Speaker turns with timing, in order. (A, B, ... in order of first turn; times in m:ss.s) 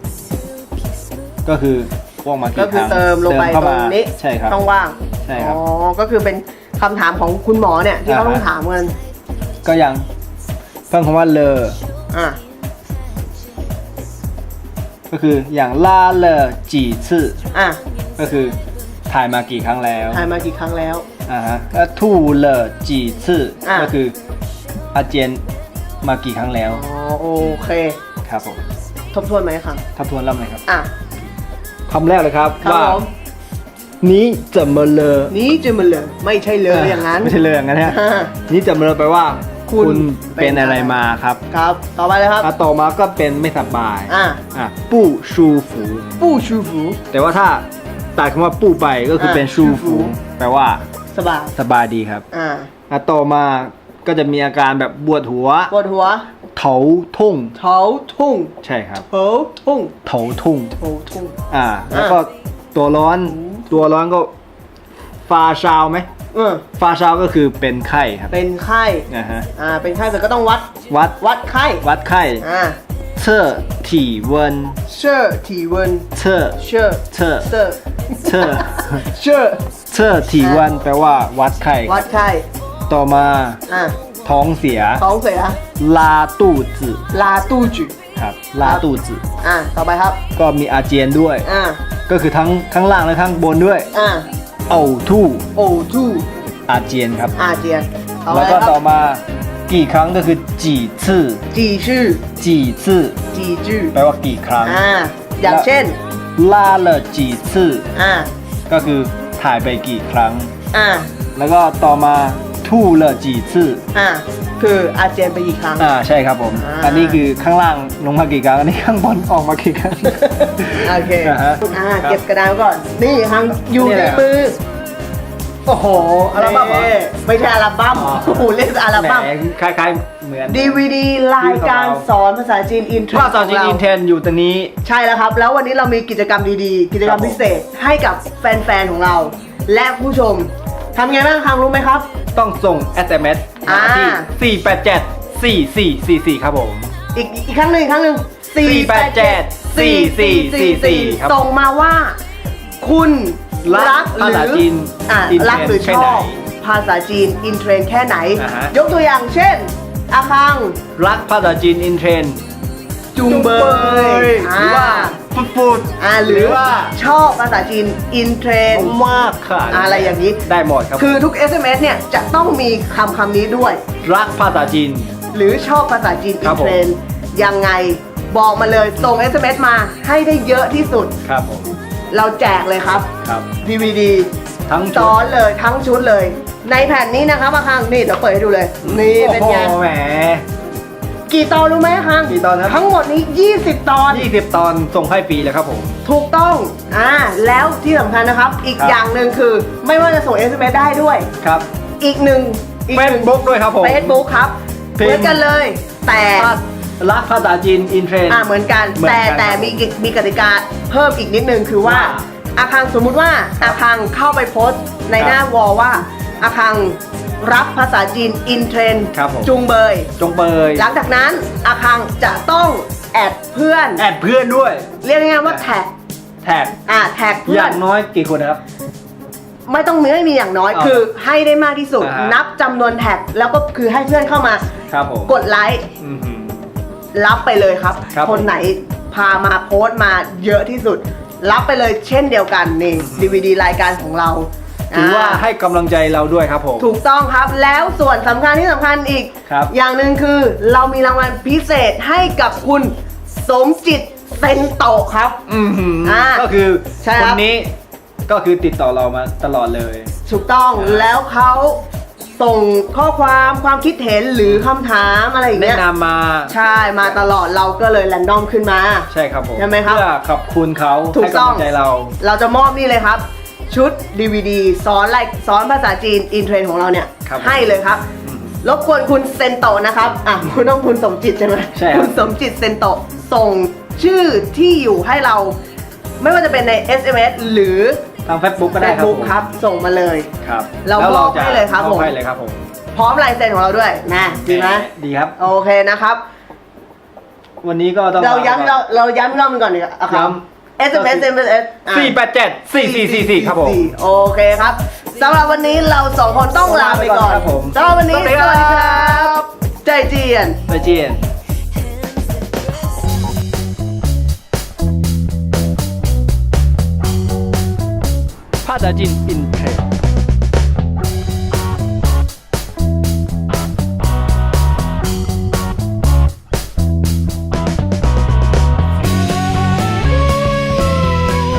0:01.4-0:04.6 A
0:02.6-0:09.0 B
0:05.2-0:05.6 A
0:08.0-0:08.4 A
0:09.6-0:10.1 A
0:10.9-0:11.8 A
0:12.1-0:12.4 B
0:15.1-0:17.4 A
0:17.5-0:17.8 B
0:18.2-0:18.6 A
0:19.1-0:20.3 A
0:20.1-0:21.0 B
0:21.3-0:24.2 A
0:23.6-0:23.9 B
0:24.9-0:25.4 A
0:26.0-0:26.8 A
0:26.7-0:28.0 B
0:28.2-0:28.6 A
0:29.1-0:29.8 B
0:30.0-0:30.6 A
0:31.9-0:33.0 A
0:32.6-0:33.1 B
0:34.0-0:35.3 A
0:35.3-0:38.3 B
0:36.7-0:41.4 A
0:39.7-0:42.5 B
0:42.4-0:46.2 A
0:44.1-0:44.4 B
0:46.2-0:47.0 B
0:47.1-0:47.6 A
0:48.2-0:50.8 A
0:49.2-0:50.1 B
0:51.1-0:51.5 B
0:51.5-0:52.2 A
0:52.3-0:52.7 B
0:52.9-0:55.7 A
0:55.7-0:56.3 B
0:56.5-0:57.5 A
0:57.5-0:58.5 B
0:58.6-0:59.0 A
0:59.0-0:59.9 B
1:00.0-1:00.7 A
1:00.8-1:01.4 B
1:01.5-1:04.3 A
1:01.9-1:02.2 B
1:03.2-1:03.6 B
1:05.2-1:06.1 A
1:06.3-1:06.6 B
1:06.8-1:08.3 A
1:08.3-1:11.8 B
1:09.1-1:09.5 A
1:10.9-1:11.2 A
1:11.8-1:12.4 A
1:12.4-1:12.8 B
1:13.2-1:14.8 A
1:14.8-1:19.6 B
1:16.1-1:16.6 A
1:17.1-1:17.5 A
1:18.2-1:19.0 A
1:19.9-1:22.0 A
1:21.8-1:22.5 B
1:22.9-1:23.6 A
1:23.7-1:24.0 B
1:24.2-1:25.0 A
1:25.0-1:25.6 B
1:25.8-1:27.0 A
1:27.1-1:27.9 B
1:28.1-1:29.2 A
1:29.4-1:30.2 B
1:30.3-1:31.4 A
1:31.4-1:31.8 B
1:32.1-1:33.9 A
1:33.9-1:34.3 B
1:34.7-1:35.4 A
1:35.5-1:36.3 B
1:36.7-1:37.3 A
1:37.4-1:38.8 B
1:38.3-1:41.4 A
1:41.5-1:42.2 B
1:42.4-1:43.2 A
1:43.3-1:43.9 B
1:43.9-1:44.8 A
1:44.6-1:46.0 B
1:46.4-1:47.8 A
1:47.9-1:48.3 B
1:48.7-1:50.5 A
1:50.7-1:51.1 B
1:51.4-1:53.8 A
1:53.9-1:55.9 B
1:55.8-2:02.2 A
1:56.5-1:57.2 B
2:00.1-2:04.6 B
2:03.6-2:04.3 A
2:05.6-2:06.9 A
2:06.3-2:09.3 B
2:07.9-2:10.8 A
2:10.5-2:13.8 B
2:11.4-2:12.0 A
2:13.1-2:14.7 A
2:14.8-2:22.1 B
2:17.0-2:17.4 A
2:22.3-2:26.9 A
2:23.6-2:24.3 B
2:27.1-2:32.2 B
2:28.6-2:31.4 A
2:32.8-2:40.8 B
2:33.6-2:36.4 A
2:38.4-2:38.7 A
2:41.0-2:42.4 A
2:43.1-2:45.2 B
2:43.2-2:46.9 A
2:46.0-2:49.0 B
2:48.7-2:51.2 A
2:49.7-2:50.4 B
2:51.0-2:53.8 B
2:54.0-2:55.1 A
2:55.3-3:01.1 B
2:56.4-2:56.8 A
3:01.2-3:01.7 A
3:02.1-3:03.1 B
3:03.2-3:03.5 A
3:03.6-3:04.3 B
3:04.7-3:05.2 A
3:04.9-3:09.8 B
3:08.8-3:10.4 A
3:11.3-3:14.3 B
3:12.3-3:12.8 A
3:14.1-3:16.0 A
3:16.0-3:21.3 B
3:21.4-3:21.7 A
3:22.0-3:26.5 B
3:22.9-3:24.2 A
3:25.0-3:25.4 A
3:26.3-3:29.9 A
3:28.3-3:40.1 B
3:31.8-3:32.2 A
3:39.1-3:39.5 A
3:40.2-3:40.8 A
3:40.7-3:44.0 B
3:44.0-3:44.9 A
3:45.0-3:45.9 B
3:46.4-3:46.8 A
3:46.8-3:47.8 B
3:47.4-3:48.6 A
3:49.6-3:54.6 B
3:50.7-3:51.1 A
3:52.0-3:52.4 A
3:54.9-3:55.3 A
3:55.3-3:55.8 B
3:56.0-3:56.7 A
3:57.1-4:05.4 B
3:58.1-3:58.5 A
4:03.0-4:03.4 A
4:04.9-4:06.9 A
4:06.8-4:12.9 B
4:09.4-4:09.7 A
4:13.4-4:15.4 B
4:15.5-4:17.7 A
4:16.0-4:16.4 B
4:17.0-4:17.4 B
4:18.3-4:20.1 A
4:20.2-4:21.8 B
4:20.8-4:21.1 A
4:22.4-4:25.8 B
4:24.4-4:24.7 A
4:25.5-4:27.2 A
4:26.5-4:30.0 B
4:29.1-4:32.1 A
4:31.1-4:31.6 B
4:32.2-4:38.0 B
4:37.2-4:37.7 A
4:38.2-4:38.6 A
4:38.6-4:45.6 B
4:41.7-4:42.2 A
4:46.2-4:48.0 B
4:48.2-4:49.5 A
4:48.8-4:50.3 B
4:50.4-4:52.6 A
4:50.8-4:52.1 B
4:52.9-4:56.2 B
4:54.4-4:55.4 A
4:57.6-4:58.8 A
4:58.1-5:02.1 B
5:00.1-5:00.4 A
5:00.9-5:01.3 A
5:01.9-5:03.9 A
5:02.8-5:10.6 B
5:06.6-5:09.5 A
5:10.7-5:11.2 A
5:18.6-5:19.8 A